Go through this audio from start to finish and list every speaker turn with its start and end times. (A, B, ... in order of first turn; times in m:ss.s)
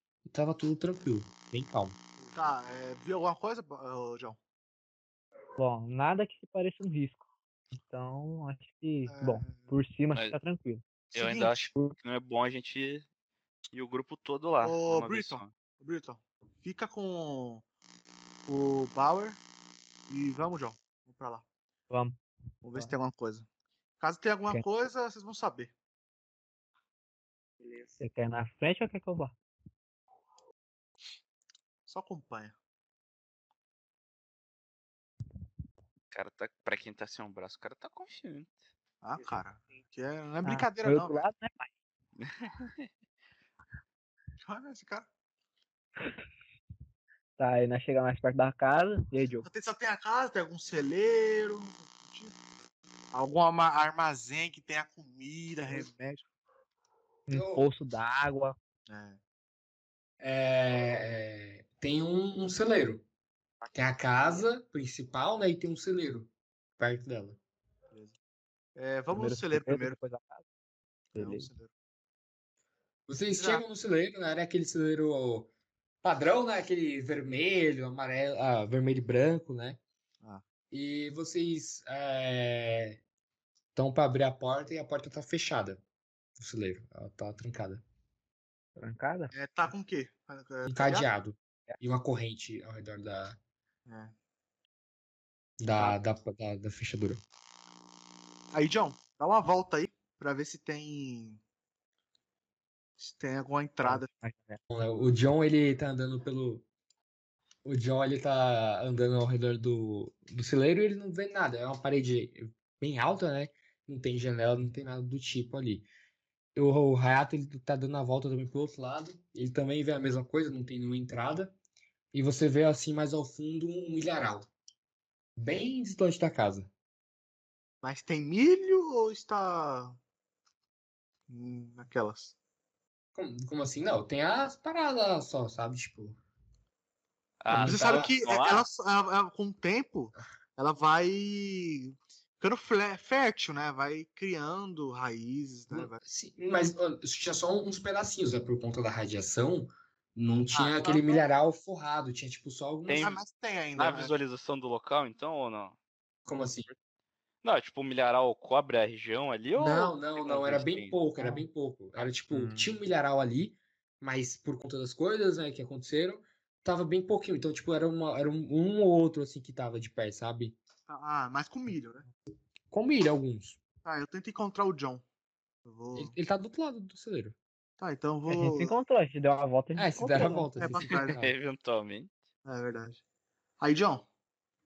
0:00.3-0:02.0 A
0:02.2-0:04.4 B
0:05.6-0:07.2 C
0:07.8-0:10.8 C
0:09.1-0:09.7 B
0:11.1-0:13.1 D
0:13.7-0:15.5 D
0:14.6-0:17.6 B
0:18.5-0:19.4 B
0:20.1-0:21.4 B
0:21.9-0:22.2 C
0:22.6-0:23.5 B
0:24.0-0:25.7 B
0:27.6-0:28.0 E
0:28.0-0:29.4 C
0:31.9-0:32.6 B
0:36.1-0:38.5 D
0:39.0-0:41.2 B
0:39.2-0:39.8 E
0:40.4-0:41.7 C
0:42.2-0:42.9 D
0:44.4-0:45.1 B
0:47.4-0:49.5 C
0:49.4-0:52.3 B
0:53.1-0:56.3 B
0:57.3-0:58.6 C
0:57.3-0:57.7 A
0:58.9-0:59.2 B
1:00.2-1:03.0 A
1:03.6-1:04.4 E
1:03.7-1:07.4 A
1:08.8-1:10.0 B
1:09.1-1:10.4 C
1:11.1-1:11.5 C
1:11.2-1:11.7 B
1:13.1-1:15.5 A
1:13.4-1:13.6 B
1:16.0-1:19.8 A
1:20.7-1:23.0 A
1:23.8-1:25.8 A
1:26.4-1:27.8 A
1:28.8-1:29.3 C
1:29.3-1:31.1 B
1:30.7-1:33.4 A
1:33.9-1:34.2 B
1:35.6-1:37.2 A
1:38.5-1:41.4 B
1:43.0-1:44.1 B
1:43.8-1:44.6 C
1:44.7-1:46.7 A
1:47.6-1:55.9 A
1:56.6-2:01.6 A
2:02.1-2:04.5 A
2:05.4-2:06.7 A
2:07.8-2:10.0 B
2:11.3-2:12.3 B
2:13.2-2:16.2 A
2:17.4-2:18.7 D
2:17.5-2:18.1 A
2:17.6-2:26.0 B
2:25.7-2:33.1 A
2:30.5-2:31.0 B
2:32.9-2:33.2 D
2:33.0-2:34.1 B
2:33.8-2:35.8 D
2:36.3-2:36.7 A
2:37.4-2:41.0 D
2:39.6-2:50.6 A
2:41.2-2:41.5 C
2:42.3-2:42.8 C
2:50.9-2:52.1 B
2:52.7-2:53.6 A
2:53.8-2:55.0 B
2:55.6-2:56.1 B
2:56.0-2:57.4 A
2:57.8-2:58.8 B
2:58.3-3:00.6 C
2:59.8-3:01.3 A
3:00.6-3:01.2 B
3:00.8-3:02.2 D
3:02.4-3:03.0 B
3:03.6-3:04.1 B